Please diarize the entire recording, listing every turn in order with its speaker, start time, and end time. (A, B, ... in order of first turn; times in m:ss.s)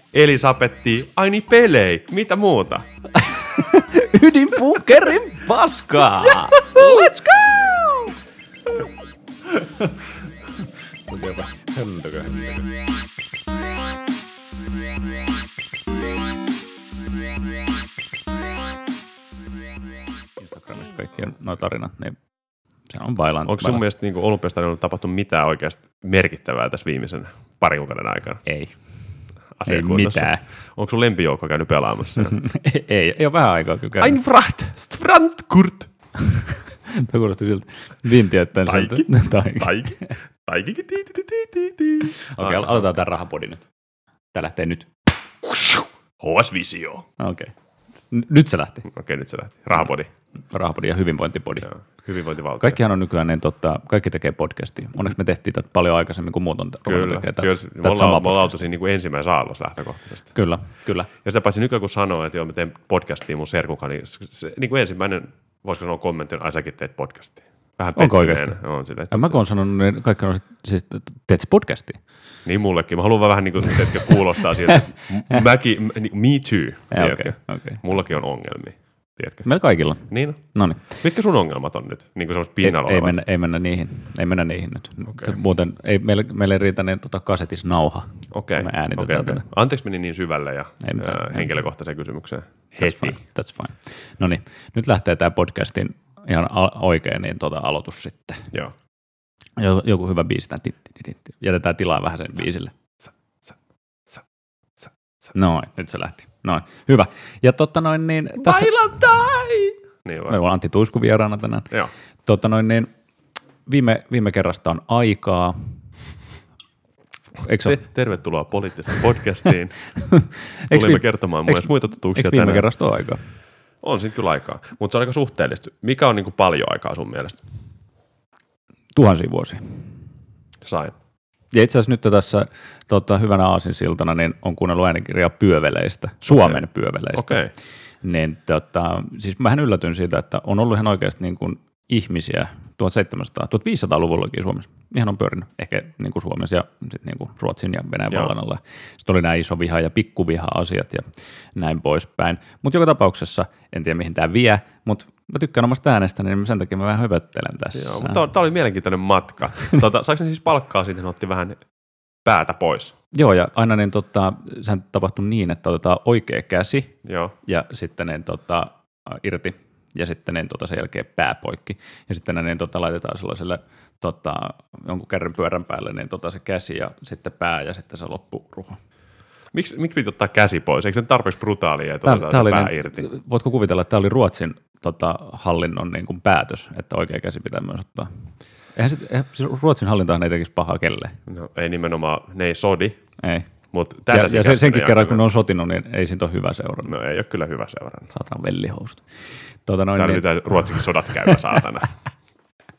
0:00.1-0:02.9 A
0:03.2-0:08.1 B
0:06.2-0:07.5 A
0:09.6-0:09.9 B
0:11.1-0:12.7 B
0:20.4-0:22.2 B
0:22.9-0:23.8 B
0:23.5-0:28.4 A
0:28.4-0:28.8 B
0:29.6-0:32.4 A
0:29.6-0:30.4 B
0:32.2-0:34.2 B
0:34.0-0:35.9 A
0:36.2-0:40.2 B
0:38.6-0:42.9 A
0:42.0-0:43.7 B
0:44.3-0:44.9 B
0:45.4-0:47.1 A
0:47.2-0:47.5 B
0:48.1-0:48.9 B
0:48.9-0:50.1 A
0:50.5-0:51.7 B
0:51.6-0:52.8 A
0:52.6-0:58.6 B
0:56.8-1:00.3 A
1:00.3-1:01.1 B
1:01.2-1:09.4 A
1:08.0-1:08.6 B
1:09.1-1:12.0 B
1:12.4-1:19.4 A
1:16.9-1:17.8 B
1:19.4-1:21.0 B
1:20.1-1:23.2 A
1:22.6-1:29.4 B
1:25.1-1:25.4 A
1:28.3-1:33.2 A
1:30.8-1:31.5 B
1:32.8-1:38.5 B
1:39.6-1:42.7 B
1:45.3-1:48.7 B
1:48.4-1:50.4 A
1:50.3-1:51.7 B
1:52.3-1:52.9 B
1:53.7-1:55.8 B
1:57.4-1:57.8 B
1:57.6-1:59.9 A
2:00.0-2:03.2 B
2:00.6-2:02.7 A
2:03.8-2:07.4 A
2:08.9-2:09.9 B
2:10.6-2:10.9 A
2:11.5-2:17.4 B
2:16.3-2:17.5 A
2:18.0-2:38.2 B
2:37.7-2:41.6 A
2:42.2-2:43.0 A
2:43.1-2:58.8 B
2:47.0-2:47.3 A
2:59.5-3:03.0 A
3:02.0-3:08.1 B
3:08.8-3:11.2 B
3:11.3-3:13.0 A
3:13.2-3:13.5 B
3:13.7-3:15.2 A
3:14.1-3:16.9 B
3:16.9-3:18.1 A
3:18.1-3:19.0 B
3:19.7-3:20.9 B
3:19.9-3:21.9 A